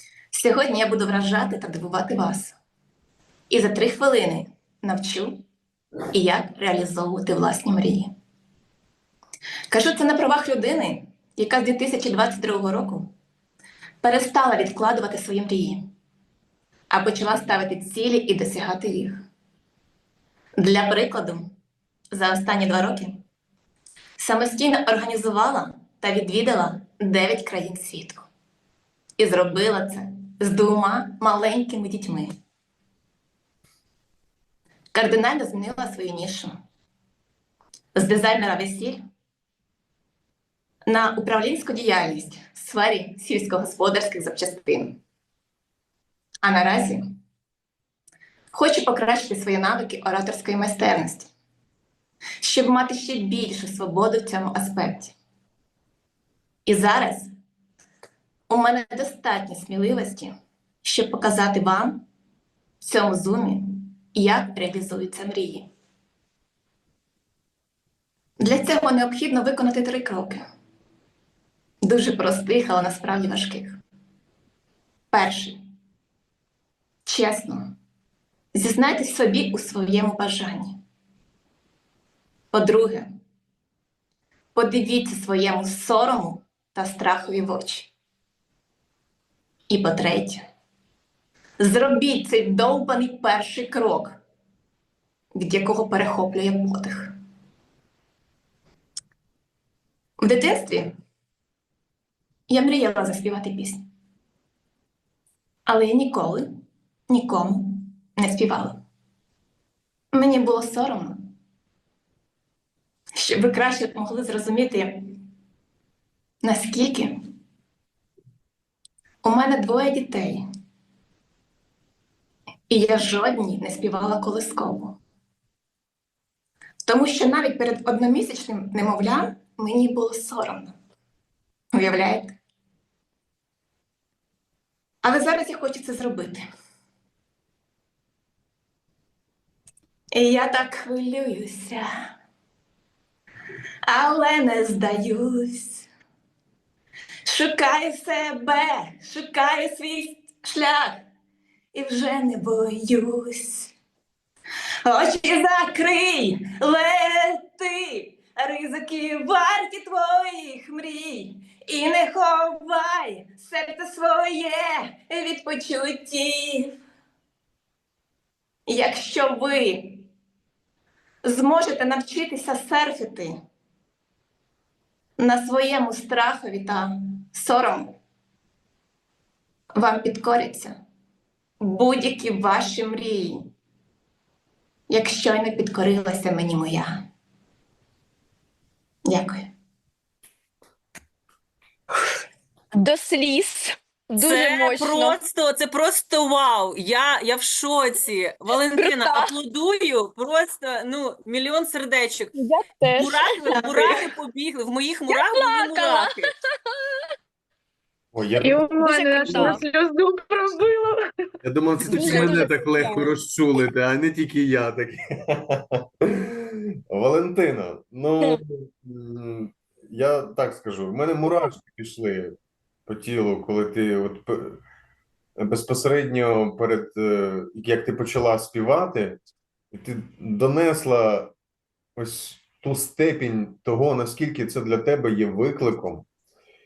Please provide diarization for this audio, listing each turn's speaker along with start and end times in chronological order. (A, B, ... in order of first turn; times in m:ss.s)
0:00.3-0:02.5 A
0:03.5-0:05.4 A
0:06.1-0:08.1 A
0:09.7-0:13.1 A
0:14.0-0:15.8 A
0:16.9-0:19.2 A
0:20.6-0:21.4 A
0:22.1-0:23.2 A
0:24.2-0:28.2 A
0:29.2-0:32.3 A
0:34.9-0:36.5 A
0:38.0-0:39.0 A
0:40.9-0:45.0 A
0:46.4-0:47.1 A
0:48.5-0:51.3 A
0:52.4-0:55.1 A
0:56.7-0:57.3 A
0:58.5-1:00.3 A
1:00.8-1:02.0 A
1:02.8-1:05.7 A
1:08.4-1:10.4 A
1:11.8-1:13.8 A
1:15.1-1:15.6 A
1:17.0-1:17.7 A
1:18.6-1:20.8 A
1:22.5-1:23.1 A
1:24.6-1:27.9 A
1:29.7-1:30.4 A
1:31.6-1:34.2 A
1:35.3-1:37.1 A
1:40.2-1:40.9 A
1:42.5-1:43.8 A
1:45.7-1:46.5 A
1:47.1-1:48.8 A
1:50.1-1:51.3 A
1:53.2-1:55.2 A
1:56.4-1:57.1 A
1:59.2-2:00.4 A
2:02.7-2:05.0 A
2:06.8-2:10.7 A
2:11.7-2:12.4 A
2:15.0-2:16.4 A
2:20.1-2:21.8 A
2:23.8-2:25.9 A
2:27.2-2:31.0 A
2:31.7-2:33.7 A
2:34.8-2:46.8 A
2:48.7-2:50.1 A
2:51.2-2:53.3 A
2:55.2-2:58.0 A
2:59.8-3:00.8 A
3:01.6-3:03.4 A
3:04.9-3:07.0 A
3:09.1-3:09.5 A
3:12.7-3:15.2 B
3:14.2-3:22.3 C
3:18.8-3:19.3 B
3:22.3-3:24.0 B
3:23.0-3:26.3 C
3:25.1-3:26.3 B
3:28.1-3:28.7 D
3:28.4-3:31.0 E
3:28.8-3:29.6 B
3:29.2-3:29.6 D
3:31.4-3:42.3 D
3:31.9-3:33.1 B
3:32.0-3:32.2 C
3:42.9-3:44.6 D
3:45.4-3:49.2 D
3:49.7-3:51.3 D
3:52.0-3:56.1 D